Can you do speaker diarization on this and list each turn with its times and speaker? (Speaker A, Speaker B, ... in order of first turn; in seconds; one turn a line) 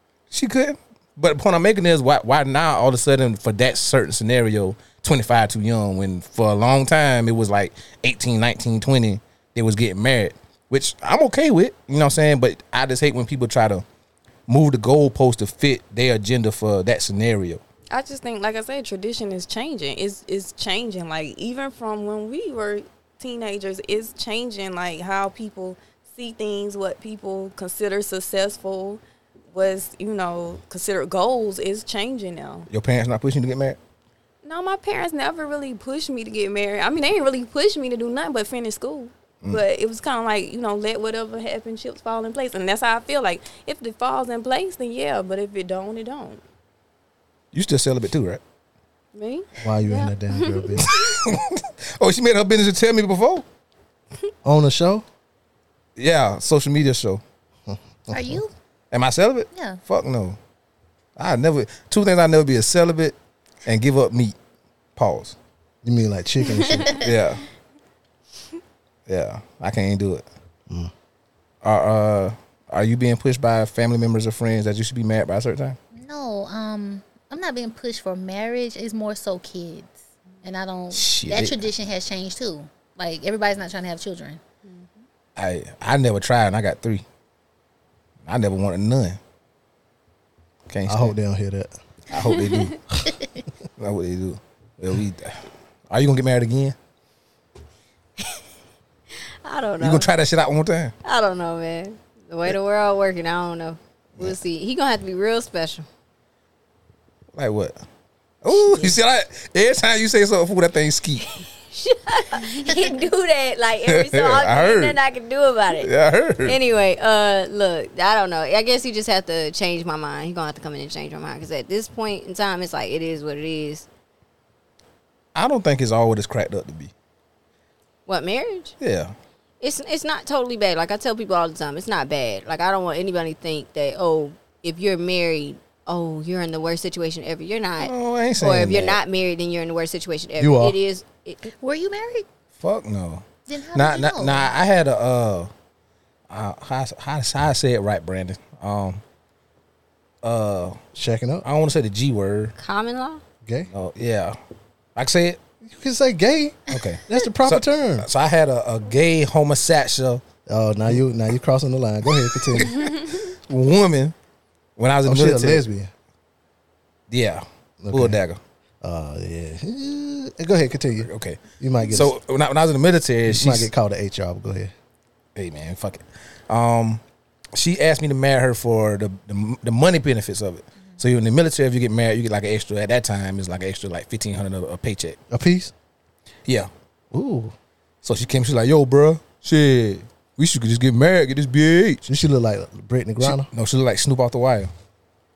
Speaker A: 0.3-13.8
Speaker A: 14.5-17.6
Speaker B: 17.9-29.0
Speaker B: 29.5-32.7
Speaker A: 32.7-33.8
Speaker B: 34.4-46.4
Speaker A: 47.5-48.4
Speaker B: 49.1-51.0
Speaker C: 49.6-50.9
Speaker A: 50.8-53.5
Speaker C: 54.4-55.0
Speaker A: 56.0-57.2
Speaker C: 57.7-58.4
Speaker D: 58.1-58.5
Speaker A: 58.9-60.4
Speaker D: 59.5-59.8
Speaker A: 61.2-64.4
Speaker A: 65.0-65.4
Speaker C: 65.8-67.0
Speaker D: 66.8-67.0
Speaker A: 67.0-67.5
Speaker A: 69.1-70.2
Speaker A: 71.6-75.8
Speaker D: 75.9-84.4
Speaker A: 80.9-81.7
Speaker A: 85.4-87.0
Speaker A: 88.3-89.2
Speaker A: 90.7-91.2
Speaker C: 90.9-91.7
Speaker A: 92.1-92.8
Speaker E: 92.2-92.7
Speaker D: 93.1-93.4
Speaker A: 93.8-96.8
Speaker E: 99.4-100.1
Speaker A: 99.8-100.9
Speaker E: 101.0-105.9
Speaker A: 107.3-107.8
Speaker A: 108.4-111.3
Speaker E: 108.5-109.0
Speaker E: 111.7-115.9
Speaker A: 113.9-115.0
Speaker A: 115.7-116.6
Speaker E: 116.5-123.9
Speaker A: 125.3-126.9
Speaker E: 128.1-128.8
Speaker A: 128.8-129.1
Speaker E: 129.6-141.5
Speaker A: 137.8-139.0
Speaker C: 140.4-140.8
Speaker D: 141.5-142.3
Speaker A: 142.6-145.5
Speaker D: 143.5-144.5
Speaker A: 146.3-149.0
Speaker A: 150.2-150.8
Speaker C: 150.9-151.5
Speaker A: 151.4-152.5
Speaker E: 152.6-153.2
Speaker C: 153.4-153.7
Speaker A: 153.7-154.4
Speaker A: 155.0-155.4
Speaker C: 155.6-158.1
Speaker A: 156.7-160.2
Speaker C: 160.5-162.8
Speaker A: 162.6-164.2
Speaker A: 164.8-165.6
Speaker C: 165.0-165.9
Speaker A: 167.1-168.4
Speaker C: 167.8-168.2
Speaker C: 168.8-172.2
Speaker A: 171.0-173.7
Speaker C: 173.3-174.7
Speaker A: 175.4-177.0
Speaker A: 177.5-185.2
Speaker C: 185.3-185.7
Speaker C: 187.1-187.5
Speaker A: 188.0-192.1
Speaker C: 192.1-193.5
Speaker A: 193.2-194.7